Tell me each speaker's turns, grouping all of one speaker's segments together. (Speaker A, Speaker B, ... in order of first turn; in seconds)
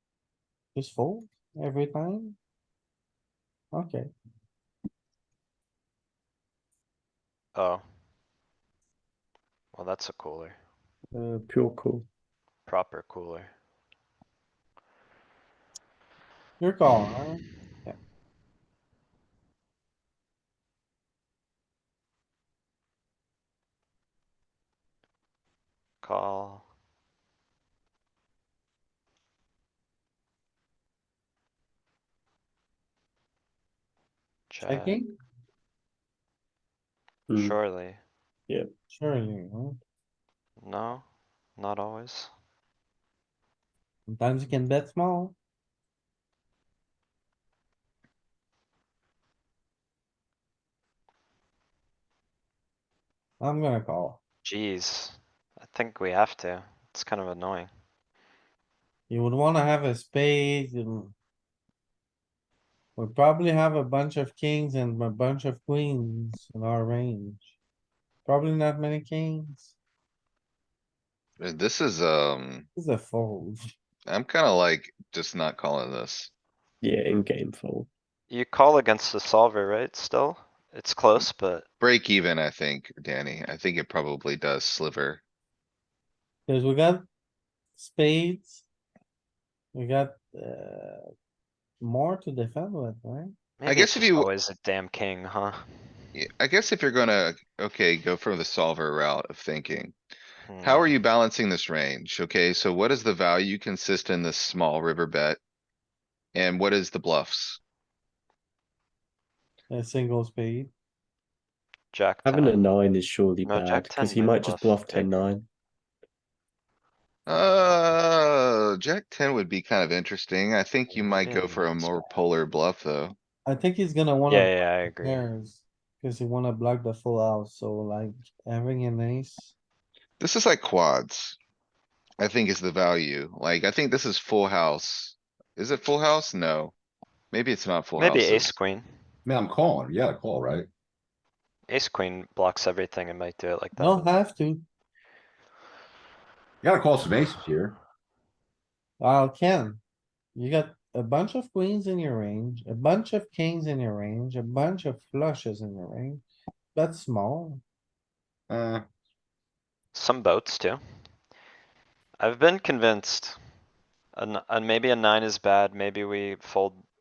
Speaker A: 0.8-2.4, 3.7-4.1, 16.6-18.0, 34.6-35.1, 38.9-39.8, 44.1-45.4, 53.4-54.2, 59.1-61.1, 63.0-67.5, 68.2-69.7, 72.8-73.7, 86.5-87.0, 87.8-88.6, 89.7-91.1, 91.8-93.3, 109.7-110.7, 123.5-129.5, 143.8-144.7, 149.0-149.8, 150.3-156.2, 156.8-157.6
Speaker B: 7.5-7.8, 9.7-10.6, 12.7-13.5, 26.0-26.6, 34.5-34.9, 37.3-38.0, 40.6-41.0, 41.6-42.3, 54.4-57.7, 78.3-81.7, 93.6-95.7, 100.5-101.0, 111.9-112.6, 113.4-115.1, 117.4-117.8, 120.9-122.2, 124.3-125.2, 138.0-138.9, 141.7-144.1, 159.9-160.8, 162.2-163.4, 164.1-166.8
Speaker C: 11.1-12.1, 37.3-37.6, 76.8-77.9, 112.2-115.5
Speaker D: 71.4-72.7, 74.1-76.3, 81.8-85.2, 93.7-94.3, 96.2-100.0, 100.6-105.4, 106.3-107.6, 117.3-123.2, 130.2-131.4, 132.2-136.7, 137.3-138.6
Speaker E: 139.3-140.7, 146.6-147.8, 158.5-158.9